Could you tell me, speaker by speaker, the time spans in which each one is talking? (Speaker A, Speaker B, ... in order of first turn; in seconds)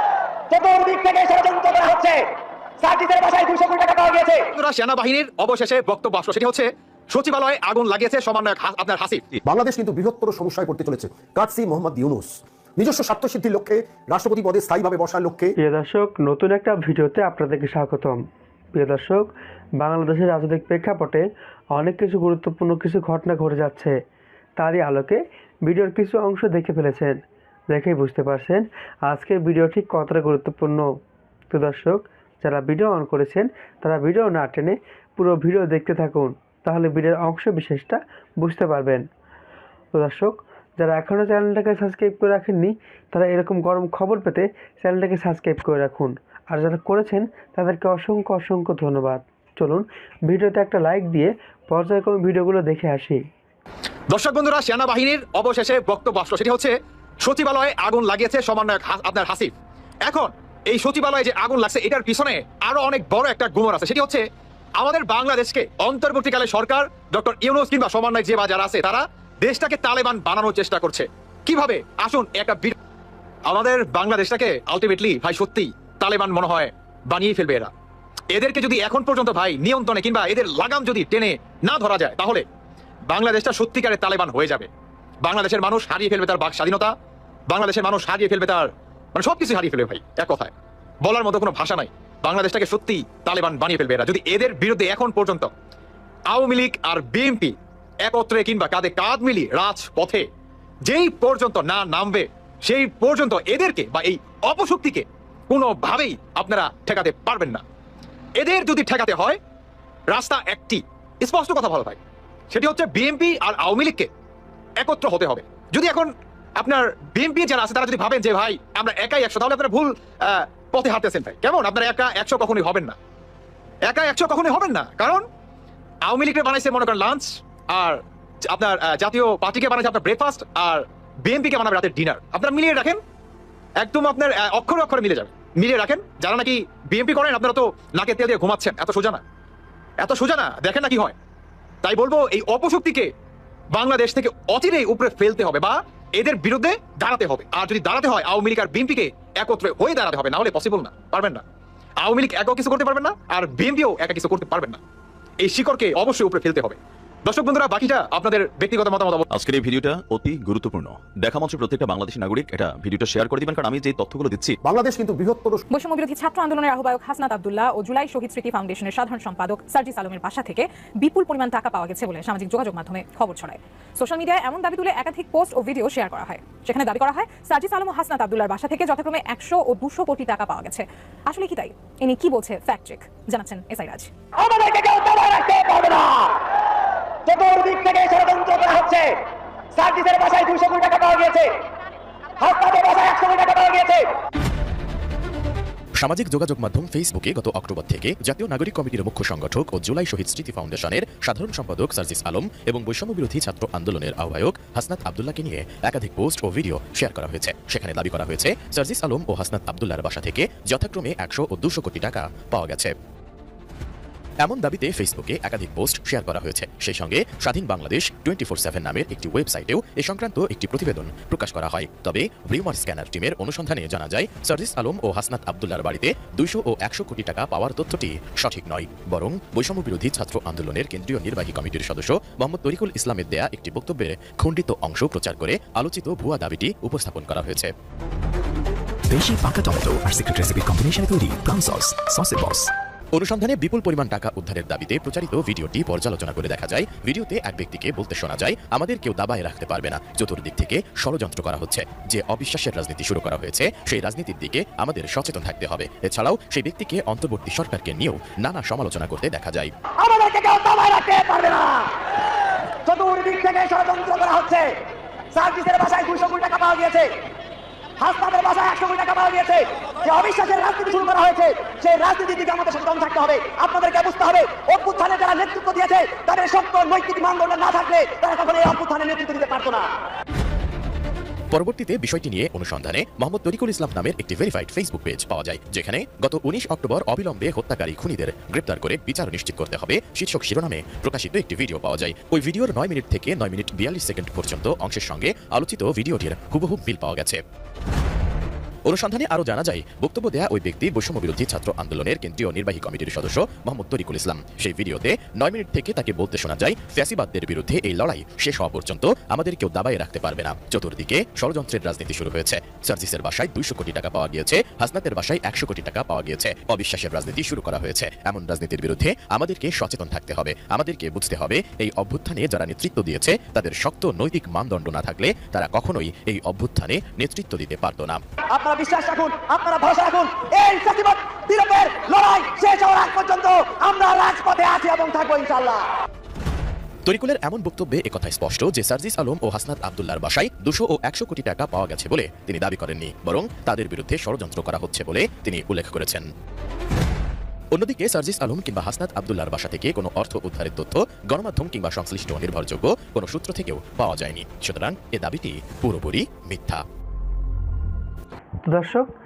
Speaker A: 0.5-2.3, 2.8-4.5, 184.4-186.4, 187.3-189.1, 189.8-191.5, 192.4-194.1, 259.9-261.9, 262.8-264.7, 265.3-267.1, 268.0-279.9, 328.5-335.9
Speaker B: 4.5-9.2, 54.1-56.7, 57.2-59.5, 60.1-64.2, 64.8-72.7, 73.5-77.7, 78.3-82.4, 83.1-84.7, 85.2-86.9, 87.5-90.5, 91.0-95.5, 96.3-97.5, 98.0-100.2, 100.9-107.6, 108.4-109.4, 110.1-112.0, 112.5-114.1, 114.8-123.0, 123.9-125.2, 126.0-133.0, 133.8-139.2, 140.0-141.1, 141.8-143.1, 143.7-151.4, 152.0-154.8, 155.4-159.2
Speaker C: 9.4-15.5, 164.6-165.6
Speaker D: 15.6-18.2, 18.7-19.3, 19.8-23.9, 24.6-27.2, 27.7-30.9, 31.5-39.0, 40.0-53.2, 358.7-359.1
Speaker E: 159.3-164.6
Speaker F: 165.7-184.1
Speaker G: 196.0-212.9, 214.4-237.7, 243.1-259.7, 281.5-297.4, 298.9-328.2, 337.1-346.3, 347.7-356.8
Speaker H: 239.1-242.7